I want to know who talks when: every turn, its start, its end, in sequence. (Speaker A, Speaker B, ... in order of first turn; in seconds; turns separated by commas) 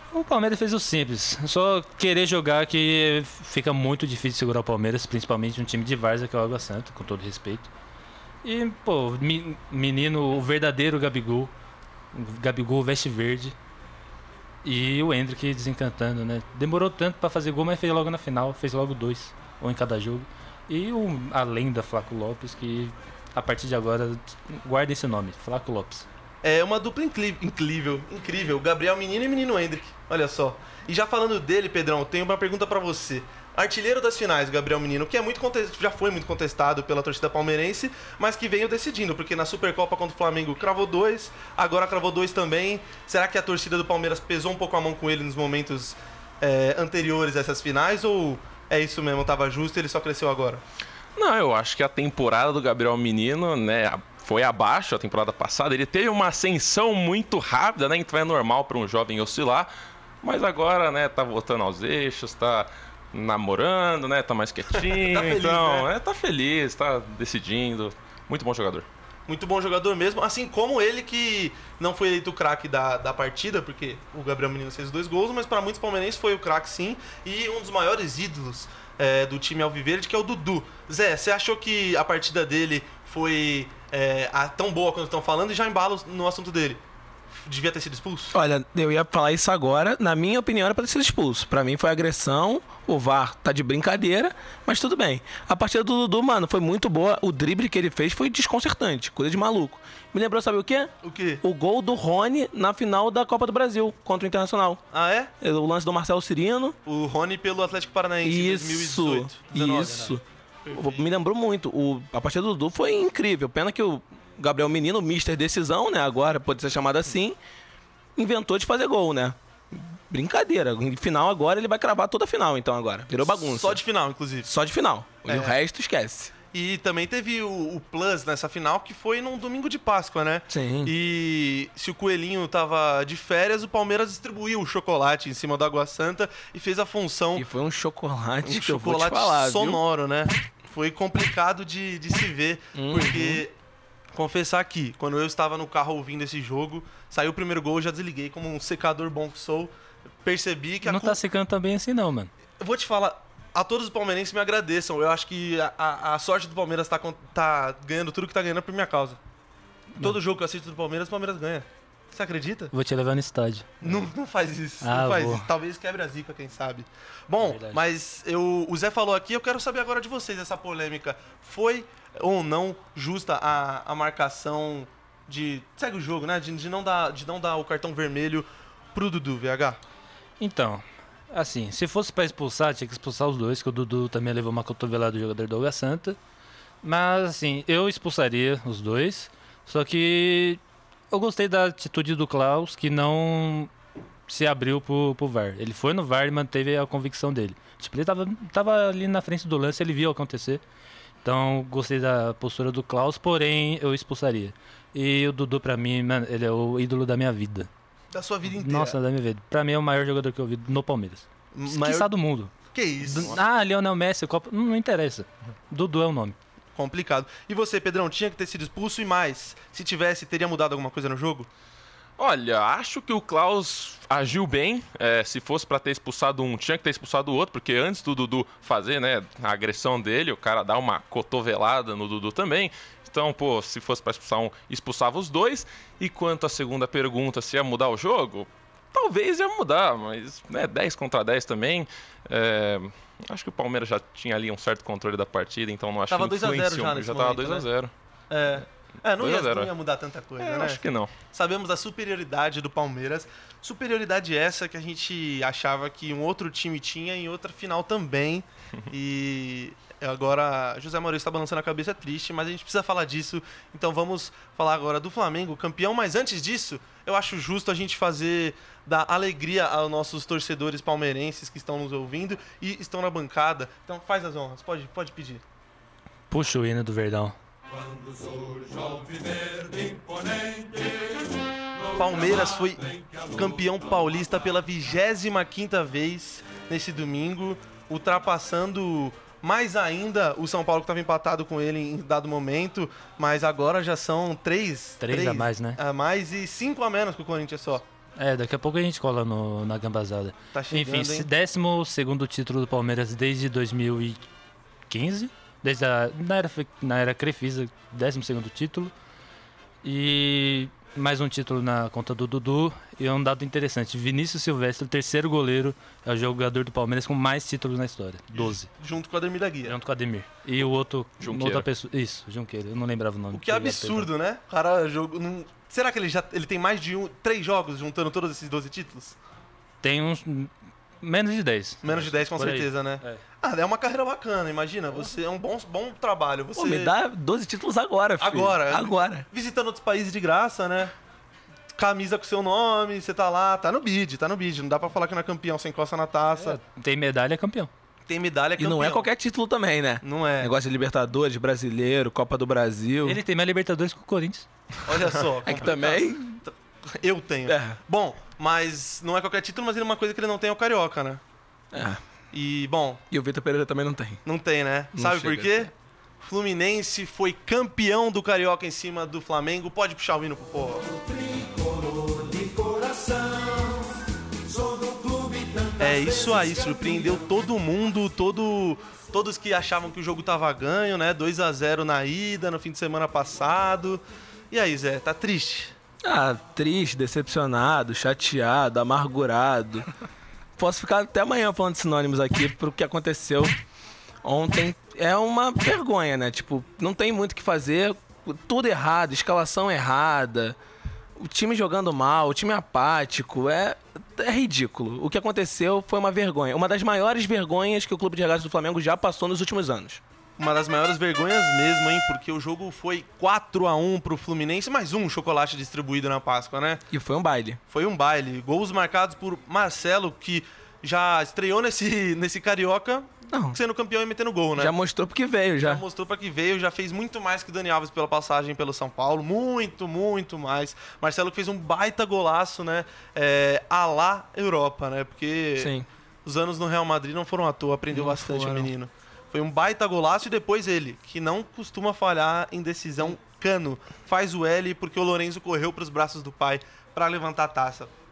Speaker A: 0.1-7.7, Speaker A: 8.4-11.5, Speaker A: 12.1-13.6, Speaker A: 14.6-26.1, Speaker B: 26.4-50.6, Speaker C: 51.2-59.7, Speaker C: 60.2-68.9, Speaker B: 64.7-65.9, Speaker B: 69.3-86.8, Speaker B: 87.4-88.3, Speaker D: 88.3-104.8, Speaker B: 101.0-101.4, Speaker B: 104.9-105.3, Speaker D: 105.4-106.8, Speaker B: 106.8-111.1, Speaker D: 108.2-117.4, Speaker D: 118.2-123.8, Speaker B: 123.3-124.5, Speaker D: 124.5-126.3, Speaker B: 125.3-125.6, Speaker B: 126.5-137.5, Speaker D: 130.5-130.9, Speaker D: 137.4-139.8, Speaker B: 138.4-143.5, Speaker D: 142.7-143.4, Speaker B: 144.1-149.7, Speaker B: 150.2-151.2, Speaker A: 150.8-152.3, Speaker B: 152.6-159.2, Speaker B: 159.9-162.7, Speaker A: 162.7-164.0, Speaker B: 163.8-179.8, Speaker A: 164.8-165.5, Speaker A: 167.4-167.8, Speaker A: 180.4-186.2, Speaker A: 186.8-193.7, Speaker A: 194.3-200.6, Speaker A: 201.2-207.7, Speaker B: 208.1-209.0, Speaker A: 208.6-216.4, Speaker B: 211.5-212.1, Speaker B: 212.7-213.4, Speaker B: 216.8-221.5, Speaker C: 222.2-247.9, Speaker B: 246.1-247.7, Speaker B: 248.3-275.4, Speaker C: 249.2-249.7, Speaker C: 250.4-251.2, Speaker A: 276.3-277.4, Speaker B: 281.9-297.8, Speaker A: 295.0-295.8, Speaker A: 298.2-304.3, Speaker B: 300.5-301.3, Speaker A: 304.9-308.9, Speaker A: 309.8-318.7, Speaker B: 318.3-319.8, Speaker A: 319.7-324.1, Speaker C: 321.2-321.7, Speaker B: 323.3-329.2, Speaker A: 329.8-333.2, Speaker B: 331.8-337.0, Speaker D: 336.6-339.2, Speaker B: 338.2-340.9, Speaker B: 341.7-346.6, Speaker A: 346.4-347.7, Speaker B: 348.1-349.1, Speaker D: 348.6-353.2, Speaker B: 350.0-350.6, Speaker A: 353.1-354.5, Speaker B: 354.9-361.2, Speaker D: 355.4-356.4, Speaker D: 357.5-357.8, Speaker D: 361.7-362.0, Speaker B: 362.3-363.0, Speaker D: 363.1-364.2, Speaker B: 364.2-370.9, Speaker D: 364.9-365.7, Speaker D: 371.3-373.9, Speaker D: 374.5-376.6, Speaker B: 375.8-385.8, Speaker D: 386.0-389.9, Speaker D: 390.6-393.6, Speaker D: 394.2-400.6, Speaker D: 401.2-410.0, Speaker B: 410.4-416.9, Speaker D: 416.9-417.6, Speaker B: 417.7-424.8, Speaker D: 423.3-423.6, Speaker D: 424.6-425.8, Speaker B: 425.6-447.9, Speaker D: 435.6-435.9, Speaker D: 437.9-438.7